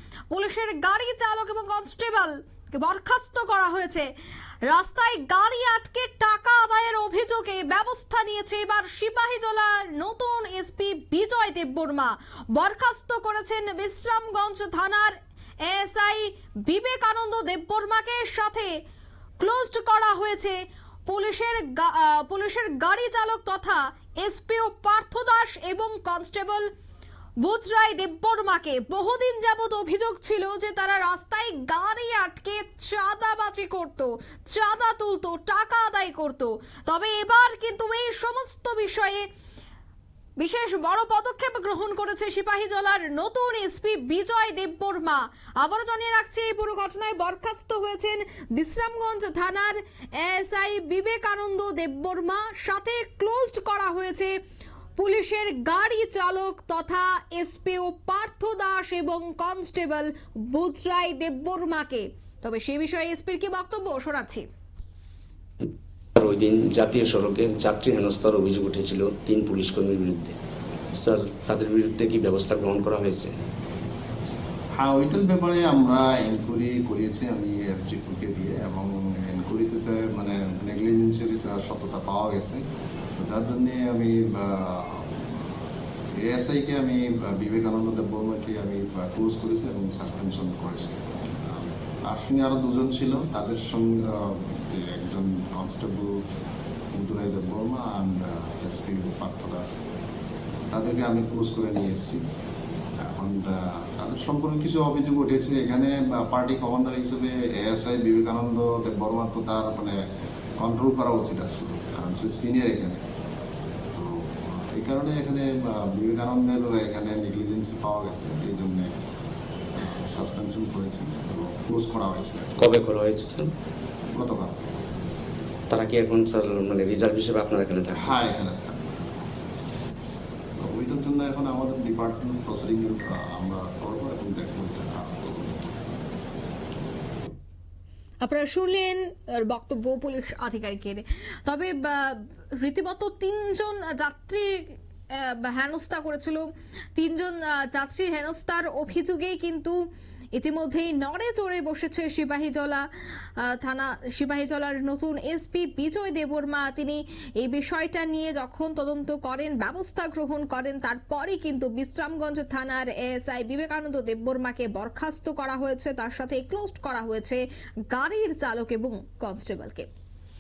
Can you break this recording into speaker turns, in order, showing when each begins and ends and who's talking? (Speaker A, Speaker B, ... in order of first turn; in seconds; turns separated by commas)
Speaker A: 0.3-4.1, Speaker A: 4.7-18.7, Speaker A: 19.4-26.7, Speaker A: 27.4-39.3, Speaker A: 40.4-54.4, Speaker A: 55.0-64.4, Speaker B: 66.2-70.4, Speaker B: 71.0-73.3, Speaker C: 74.8-82.6, Speaker C: 83.2-85.5, Speaker C: 86.2-96.2, Speaker C: 96.9-99.8, Speaker C: 100.7-102.2, Speaker C: 103.0-110.0, Speaker C: 110.6-113.0, Speaker C: 113.9-118.9, Speaker C: 119.8-122.6, Speaker B: 122.6-123.5, Speaker C: 124.1-124.6, Speaker B: 125.7-128.1, Speaker C: 127.9-129.2, Speaker C: 130.6-135.9, Speaker A: 138.2-149.8, Speaker A: 150.3-152.9, Speaker A: 153.4-169.9